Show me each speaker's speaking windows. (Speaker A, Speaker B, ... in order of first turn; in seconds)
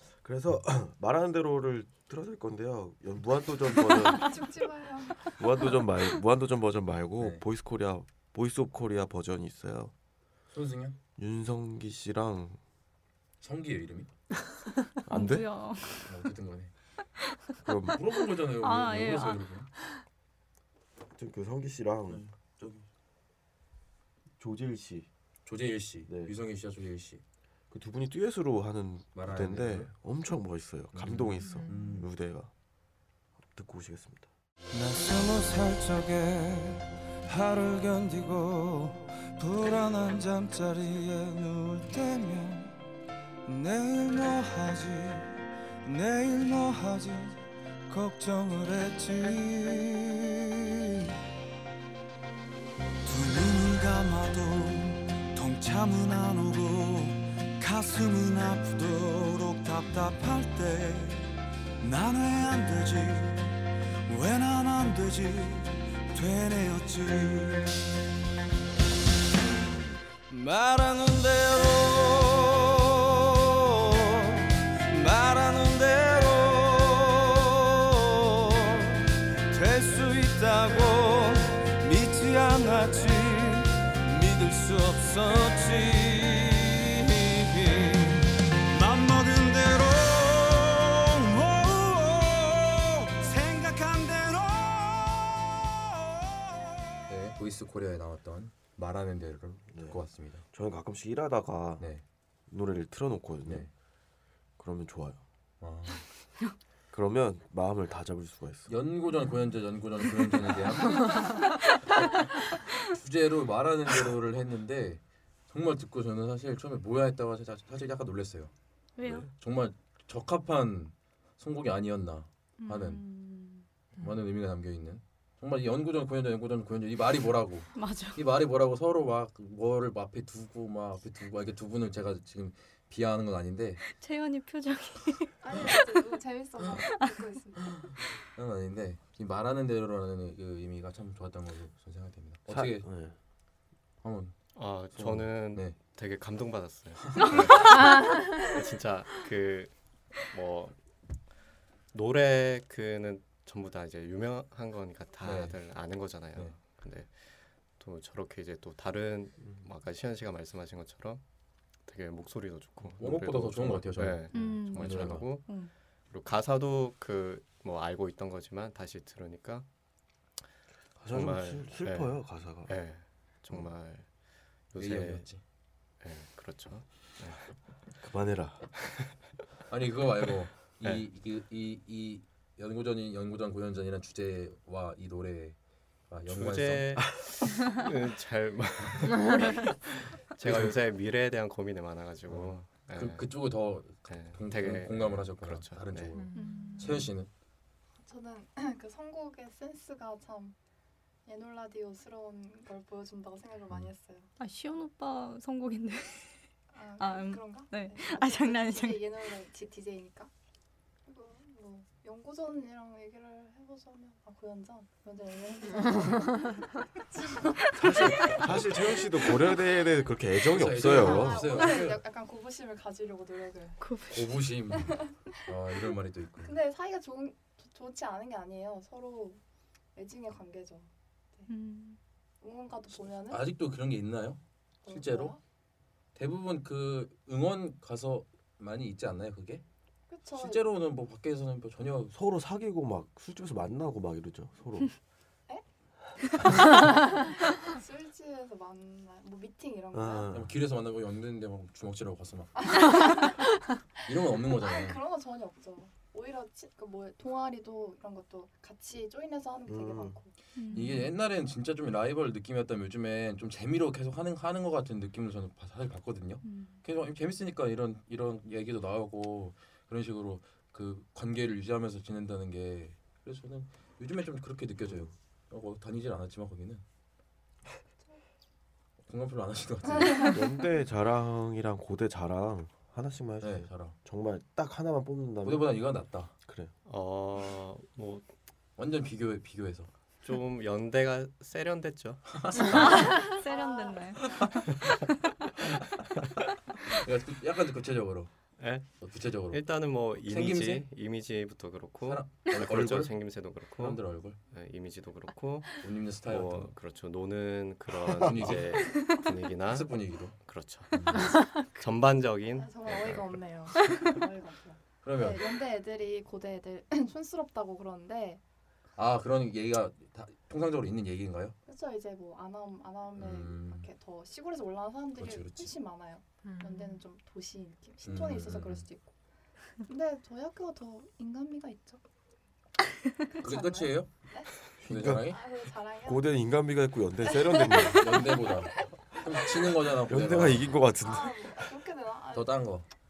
Speaker A: 0.2-4.4, 5.3-9.9, 11.2-12.6, 15.1-15.5, 17.6-18.0, 21.1-22.2, 24.4-25.1, 26.1-26.3, 27.7-32.5, 33.4-34.3, 99.7-101.9, 102.5-103.7, 104.6-105.2, 106.9-108.7, 142.5-143.2, 171.0-172.8, 178.0-178.7, 217.8-221.6, 242.1-244.9, 249.9-250.5, 259.7-260.2, 280.2-285.7, 286.4-286.7, 334.8-335.3, 336.0-338.3, 340.1-341.7
Speaker B: 3.8-5.8, 135.4-137.7, 198.0-200.6, 201.3-204.3, 206.7-210.3, 211.1-219.5, 220.8-223.8, 224.8-225.3, 226.4-229.4, 229.9-231.5, 232.4-233.6, 234.8-235.4, 240.1-240.8, 246.5-250.4, 252.6-253.4, 254.1-260.3, 293.3-294.3, 312.5-318.4, 321.6-329.1, 329.8-332.0, 333.4-336.4, 337.5-339.2, 341.0-342.7
Speaker C: 10.5-11.0, 13.4-14.1, 16.1-16.7, 17.9-19.7, 22.1-22.9, 25.4-27.2, 29.1-29.9, 30.9-32.1, 97.1-100.4, 103.5-103.7, 105.6-106.0, 108.7-118.5, 119.3-123.0, 124.0-133.8, 137.7-142.9, 144.0-144.4, 144.9-145.8, 147.2-147.7, 155.2-155.7, 162.9-165.4, 174.8-175.4, 179.7-185.6, 186.1-187.0, 192.3-197.3, 220.4-222.0, 224.1-226.6, 233.3-235.3, 236.2-239.6, 240.3-242.1, 250.3-252.9, 254.1-255.0, 260.7-276.8, 279.1-280.4, 283.4-284.0, 285.4-286.3, 288.8-289.9, 292.3-293.2, 294.3-294.7, 296.9-298.3, 298.9-300.9, 302.0-304.4, 305.8-306.7, 308.1-310.4, 310.9-311.6, 315.0-315.5, 319.0-321.6, 323.1-323.9, 325.2-325.8, 328.0-328.9, 333.4-334.1, 334.8-335.4, 337.9-340.8, 342.3-342.9
Speaker D: 15.1-16.1, 18.5-19.9, 110.9-111.7, 119.0-119.3, 122.6-123.7, 127.8-128.3, 133.8-136.1, 164.3-165.7, 196.3-197.1, 204.4-206.3, 207.0-209.2, 223.8-224.4, 231.5-232.0, 260.6-261.1, 266.4-266.8, 292.6-294.4
Speaker E: 34.7-42.8, 43.5-51.1, 53.0-67.8, 70.3-96.9
Speaker F: 144.6-150.8, 151.9-161.2, 161.8-169.7, 171.1-175.3, 176.0-177.5, 186.3-193.3, 194.1-196.2, 286.9-288.2, 290.2-292.2, 298.6-313.4